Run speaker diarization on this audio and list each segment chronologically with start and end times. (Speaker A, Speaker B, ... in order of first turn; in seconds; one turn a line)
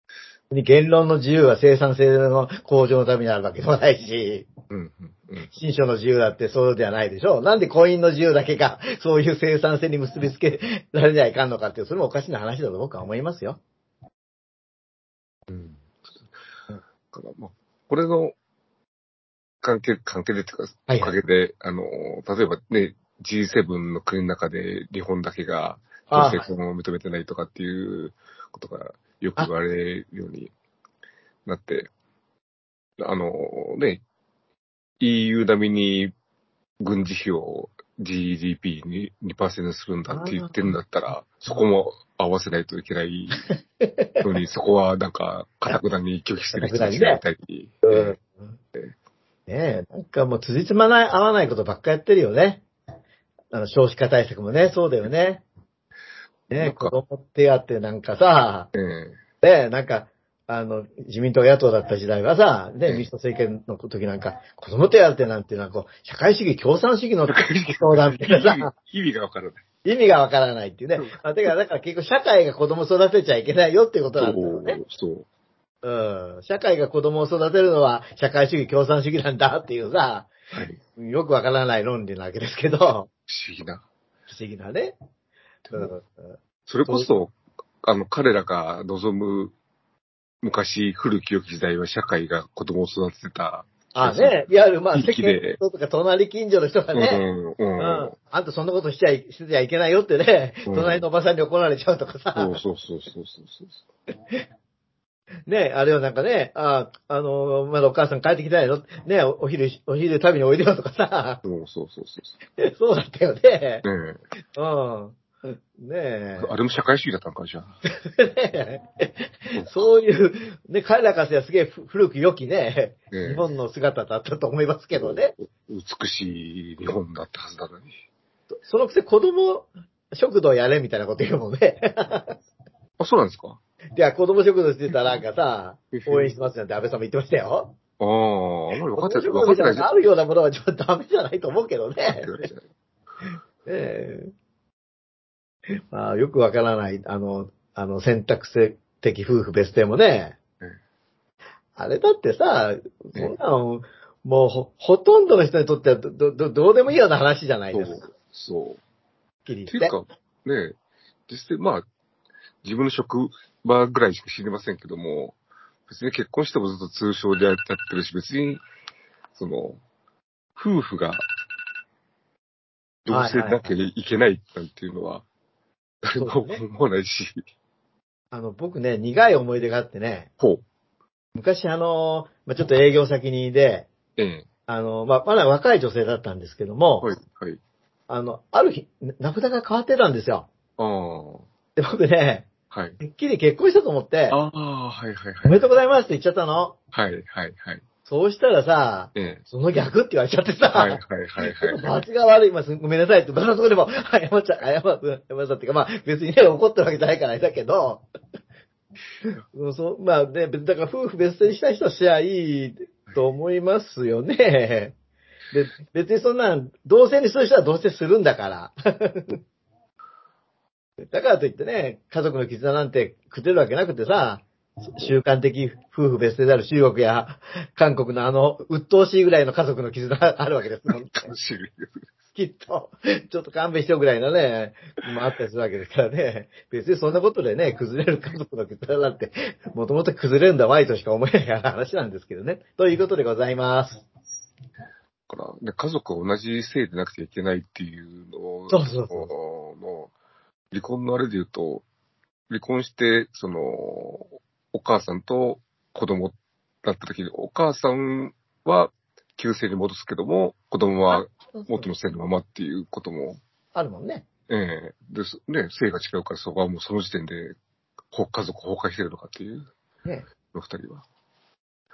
Speaker A: 0.5-4.5
Speaker B: 4.7-5.5
Speaker A: 5.5-13.6
Speaker B: 15.5-15.8
Speaker B: 17.1-18.3
Speaker B: 19.6-30.5
Speaker A: 20.9-21.2
Speaker A: 26.1-26.5
Speaker B: 31.4-31.9
Speaker B: 33.0-34.0
Speaker B: 35.0-36.1
Speaker B: 36.8-43.4
Speaker A: 40.1-40.7
Speaker A: 43.8-44.2
Speaker B: 44.2-48.1
Speaker A: 46.5-47.2
Speaker A: 47.8-48.5
Speaker A: 49.5-52.6
Speaker A: 53.5-55.4
Speaker A: 56.5-58.7
Speaker B: 56.5-56.9
Speaker B: 58.7-59.2
Speaker A: 59.4-68.7
Speaker B: 67.2-69.6
Speaker A: 69.8-74.8
Speaker B: 74.2-75.2
Speaker A: 75.8-80.3
Speaker B: 80.5-80.8
Speaker A: 80.9-83.1
Speaker B: 83.3-83.8
Speaker A: 84.3-85.0
Speaker B: 85.7-85.9
Speaker A: 85.7-87.1
Speaker B: 86.7-89.5
Speaker B: 90.4-94.3
Speaker A: 93.9-97.2
Speaker B: 94.9-95.6
Speaker B: 96.9-98.1
Speaker A: 97.8-102.6
Speaker B: 100.7-101.0
Speaker B: 102.3-103.8
Speaker A: 105.5-111.4
Speaker B: 111.4-112.3
Speaker A: 112.5-113.8
Speaker B: 113.8-114.2
Speaker A: 114.5-116.5
Speaker B: 116.4-117.8
Speaker A: 117.8-125.3
Speaker B: 123.1-123.5
Speaker B: 124.9-127.9
Speaker A: 128.6-132.3
Speaker B: 133.0-133.6
Speaker A: 133.9-137.8
Speaker B: 135.9-136.3
Speaker B: 138.0-139.9
Speaker A: 138.9-142.3
Speaker B: 142.0-142.6
Speaker A: 143.6-144.3
Speaker A: 145.8-150.4
Speaker A: 151.8-158.0
Speaker B: 157.7-158.8
Speaker A: 159.4-160.0
Speaker B: 159.7-160.8
Speaker B: 161.3-161.8
Speaker B: 162.6-165.3
Speaker B: 165.9-168.6
Speaker B: 169.3-169.8
Speaker B: 170.6-171.2
Speaker B: 173.0-175.2
Speaker A: 173.1-173.7
Speaker B: 176.0-177.4
Speaker A: 176.2-176.6
Speaker A: 178.3-180.3
Speaker A: 181.3-183.9
Speaker B: 184.2-184.4
Speaker A: 184.7-187.1
Speaker B: 187.0-187.6
Speaker A: 188.1-190.5
Speaker B: 190.8-191.5
Speaker A: 191.8-192.5
Speaker B: 192.7-193.0
Speaker A: 193.0-194.4
Speaker B: 194.3-195.6
Speaker A: 195.4-196.8
Speaker B: 196.9-197.8
Speaker A: 198.0-208.1
Speaker B: 199.1-199.4
Speaker B: 200.7-202.0
Speaker A: 209.3-214.9
Speaker A: 215.5-219.4
Speaker A: 221.1-231.3
Speaker B: 230.9-232.0
Speaker A: 232.3-244.1
Speaker B: 245.3-250.1
Speaker A: 248.7-249.3
Speaker B: 250.7-251.8
Speaker B: 252.5-263.4
Speaker A: 261.1-261.9
Speaker A: 263.7-264.2
Speaker B: 264.5-267.5
Speaker B: 268.1-269.7
Speaker B: 270.5-271.0